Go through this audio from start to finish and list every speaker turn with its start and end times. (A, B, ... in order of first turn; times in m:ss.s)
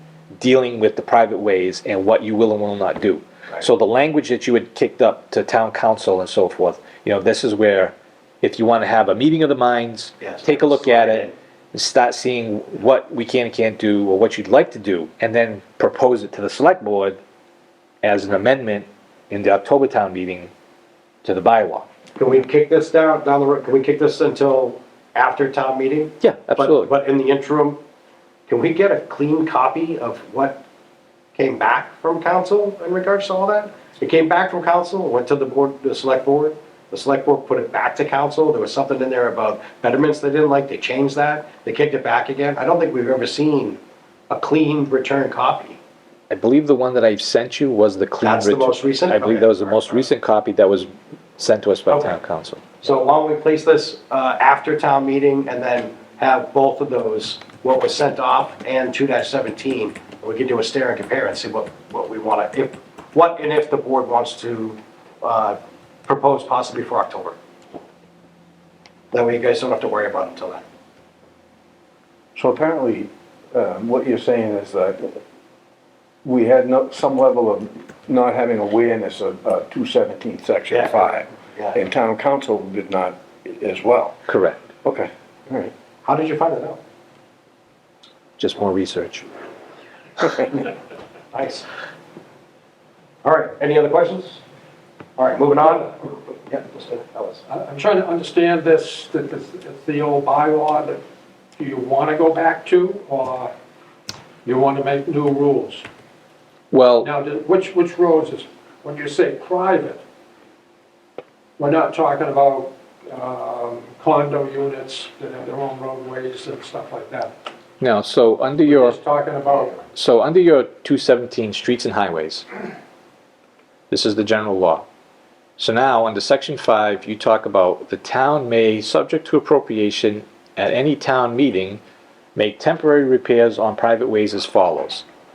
0:00.3-0:17.2 A
0:10.2-0:11.3 B
0:18.0-0:20.5 A
0:21.2-0:21.9 A
0:22.2-0:27.8 B
0:26.2-0:26.9 A
0:28.5-0:30.6 B
0:31.4-0:45.8 B
0:46.3-0:52.8 A
0:48.2-0:50.1 B
0:52.8-1:07.4 B
1:09.1-1:10.6 B
1:12.4-1:15.2 C
1:16.2-1:24.2 C
1:20.7-1:21.8 B
1:24.3-1:24.6 A
1:24.8-1:25.7 C
1:26.0-1:26.8 B
1:28.4-1:29.3 A
1:31.3-1:31.7 B
1:33.2-1:34.4 B
1:35.2-1:37.4 B
1:37.5-1:41.0 D
1:41.6-1:43.5 D
1:44.4-1:45.8 D
1:46.7-1:47.1 A
1:47.0-1:50.0 D
1:51.6-1:57.3 D
1:57.8-1:59.0 A
1:58.6-1:59.8 D
1:59.8-2:02.4 A
2:03.9-2:04.9 A
2:05.6-2:11.8 A
2:12.4-2:15.1 A